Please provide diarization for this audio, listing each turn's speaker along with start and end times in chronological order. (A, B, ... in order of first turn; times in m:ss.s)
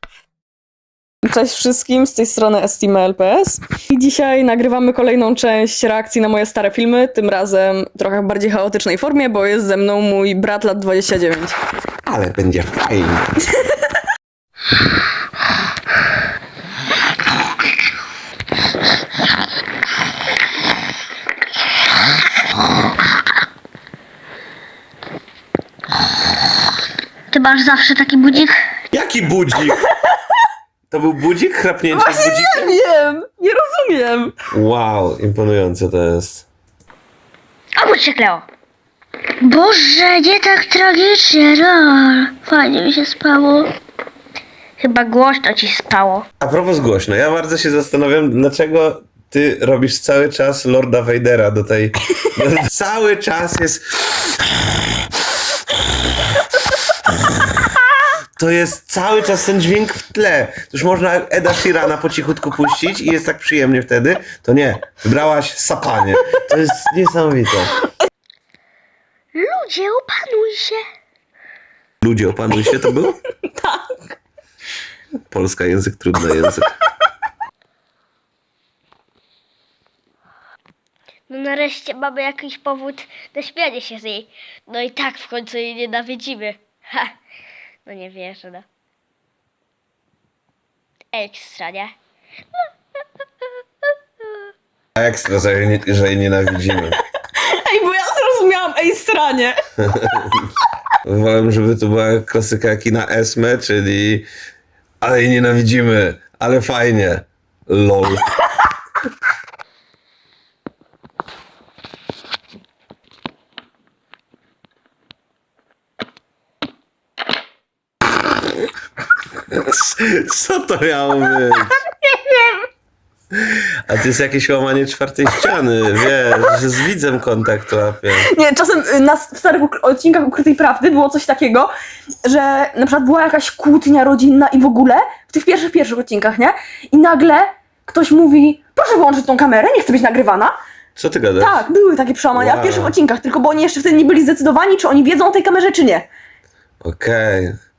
0:01.2-0:11.6 A
0:12.0-0:13.3 B
0:27.3-0:28.6 C
0:28.9-0:29.9 B
0:30.9-0:32.8 B
0:31.9-0:34.4 A
0:34.5-0:36.5 B
0:37.8-0:38.4 C
0:39.4-0:43.7 C
0:44.8-0:46.3 C
0:46.4-0:53.9 B
0:58.4-1:07.8 B
1:09.4-1:10.8 C
1:12.0-1:13.2 B
1:13.4-1:14.1 A
1:15.3-1:16.8 B
1:21.3-1:27.1 C
1:27.9-1:28.6 C
1:31.1-1:31.9 C
1:35.0-1:37.0 B
1:37.4-1:39.6 A
1:39.9-1:40.4 B
1:41.0-1:44.3 B
1:45.0-1:48.3 B
1:59.5-2:01.8 B
2:02.0-2:02.6 A
2:03.4-2:08.3 B
2:08.2-2:11.7 A
2:12.2-2:20.6 A
2:21.0-2:21.6 B
2:21.4-2:26.1 A
2:22.4-2:23.0 B
2:26.8-2:27.6 B